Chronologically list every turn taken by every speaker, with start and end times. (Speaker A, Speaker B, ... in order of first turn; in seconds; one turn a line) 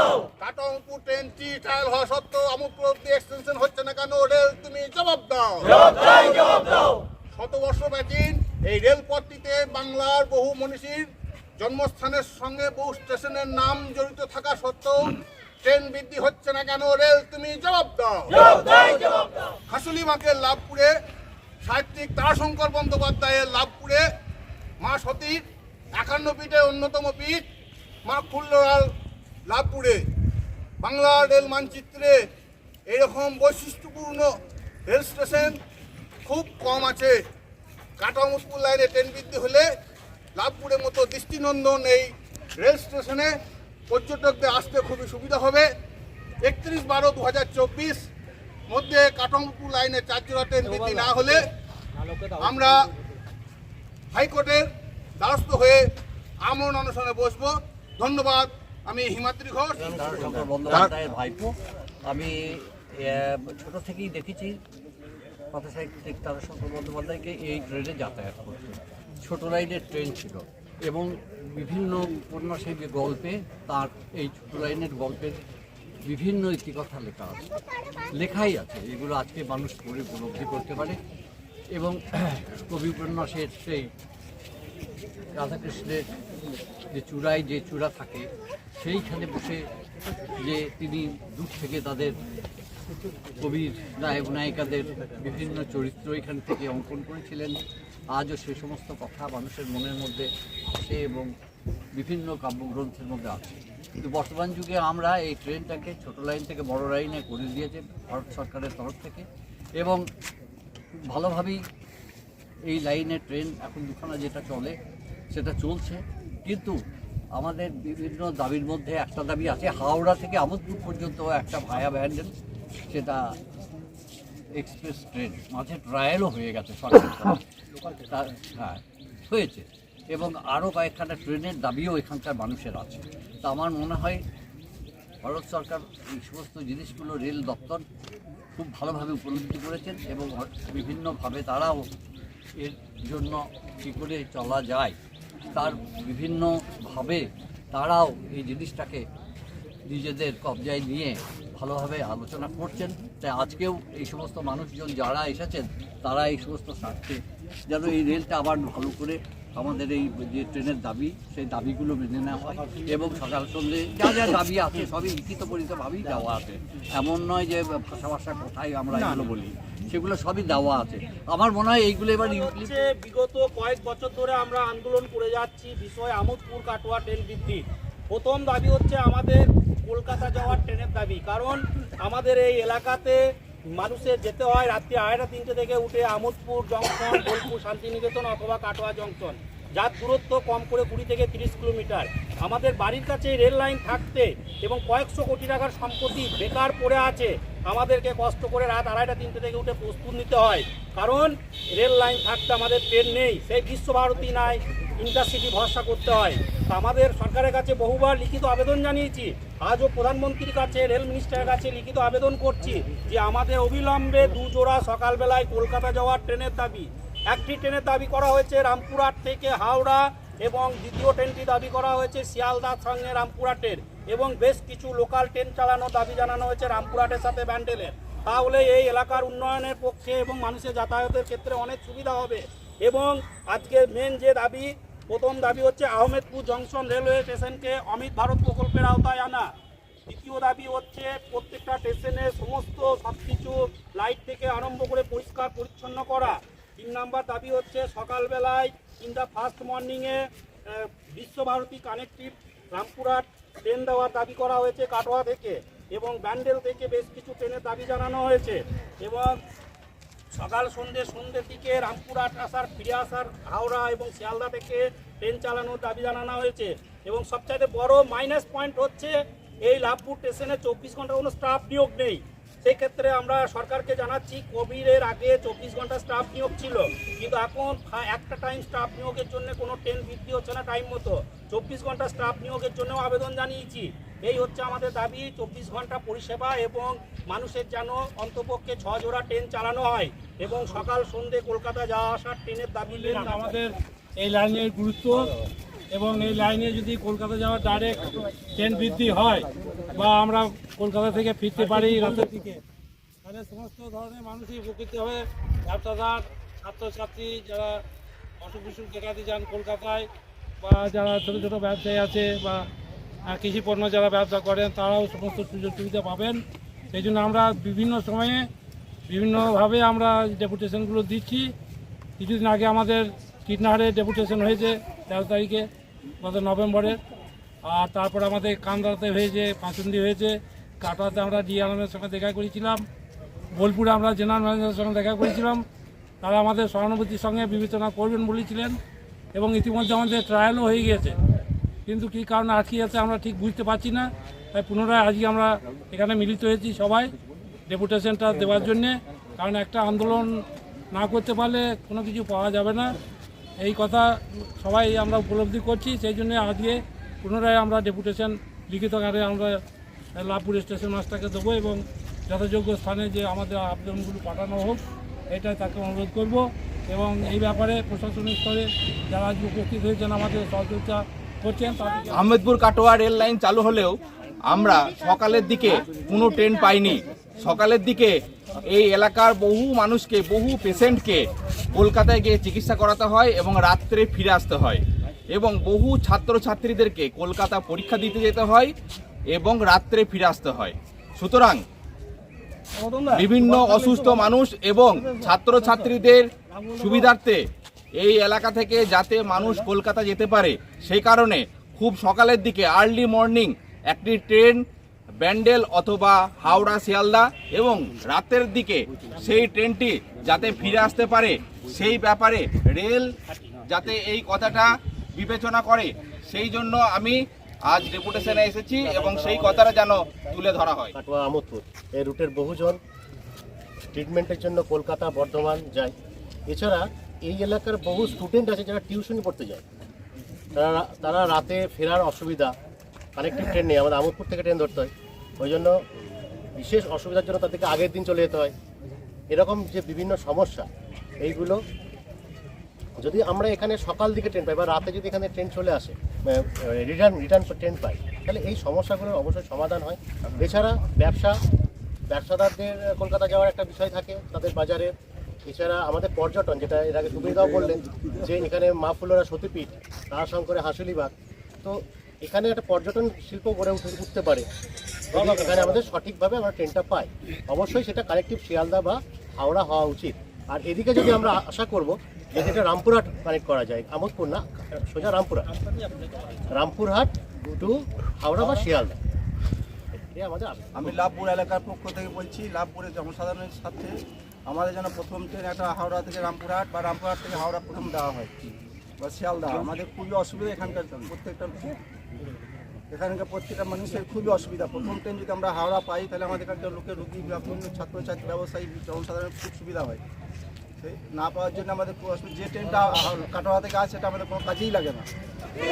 Speaker A: 0.4-6.6
Speaker A: 7.3-11.1
Speaker A: 11.6-18.9
Speaker A: 19.7-20.9
Speaker A: 21.6-24.0
Speaker A: 24.8-25.4
Speaker A: 26.0-27.4
Speaker A: 28.1-28.8
Speaker A: 29.5-30.0
Speaker A: 30.8-32.2
Speaker A: 32.9-34.3
Speaker A: 34.9-35.6
Speaker A: 36.2-37.1
Speaker A: 38.0-39.6
Speaker A: 40.4-43.3
Speaker A: 43.9-45.6
Speaker A: 46.4-48.0
Speaker A: 48.7-51.4
Speaker B: 50.6-51.1
Speaker B: 52.0-52.6
Speaker A: 52.4-52.8
Speaker A: 54.1-54.7
Speaker A: 55.2-55.8
Speaker A: 56.4-60.0
Speaker C: 59.8-61.5
Speaker D: 59.8-60.7
Speaker A: 60.6-60.9
Speaker C: 62.1-64.6
Speaker C: 65.5-75.4
Speaker C: 76.1-77.4
Speaker C: 78.3-81.0
Speaker C: 81.8-83.9
Speaker C: 85.4-86.0
Speaker C: 86.9-88.3
Speaker C: 88.8-89.6
Speaker C: 90.6-92.2
Speaker C: 93.4-97.6
Speaker C: 98.2-101.3
Speaker C: 102.0-103.5
Speaker C: 104.2-109.2
Speaker C: 111.1-111.6
Speaker C: 112.7-114.8
Speaker C: 115.3-116.8
Speaker C: 117.4-122.3
Speaker C: 122.9-123.2
Speaker C: 124.6-127.4
Speaker C: 128.3-134.2
Speaker C: 135.2-137.8
Speaker C: 138.6-141.8
Speaker C: 142.6-145.0
Speaker C: 145.6-149.0
Speaker C: 149.9-157.2
Speaker C: 157.7-166.6
Speaker C: 167.1-169.2
Speaker B: 168.9-169.4
Speaker C: 170.1-172.1
Speaker B: 172.1-183.2
Speaker B: 183.8-239.5
Speaker B: 240.1-259.4
Speaker B: 260.3-293.6
Speaker E: 292.9-295.3
Speaker E: 295.9-302.6
Speaker E: 303.2-307.8
Speaker E: 308.4-310.1
Speaker E: 310.6-312.6
Speaker E: 313.3-316.4
Speaker E: 316.9-318.5
Speaker E: 319.1-321.5
Speaker E: 322.2-325.6
Speaker E: 326.2-327.0
Speaker E: 327.6-332.8
Speaker E: 333.6-335.6
Speaker E: 336.2-338.8
Speaker E: 339.3-341.1
Speaker E: 341.9-347.1
Speaker E: 347.7-352.9
Speaker E: 353.6-359.6
Speaker E: 360.1-364.8
Speaker E: 365.3-372.2
Speaker F: 372.1-388.7
Speaker F: 389.3-391.6
Speaker B: 392.8-394.3
Speaker F: 393.1-397.4
Speaker B: 394.9-395.7
Speaker B: 396.5-397.1
Speaker F: 397.9-404.6
Speaker F: 405.2-413.1
Speaker B: 413.3-413.6
Speaker F: 413.7-420.9
Speaker G: 420.9-422.8
Speaker G: 423.9-425.9
Speaker G: 426.5-429.6
Speaker G: 430.5-432.5
Speaker G: 433.1-435.7
Speaker G: 436.6-438.5
Speaker G: 439.3-440.7
Speaker G: 441.2-441.6
Speaker G: 443.0-451.4
Speaker G: 452.1-454.9
Speaker G: 455.5-461.1
Speaker G: 461.6-464.5
Speaker G: 465.1-475.5
Speaker B: 475.5-476.4
Speaker G: 476.5-479.0
Speaker G: 479.9-481.0
Speaker D: 480.8-491.8
Speaker D: 492.9-500.0
Speaker D: 500.8-505.1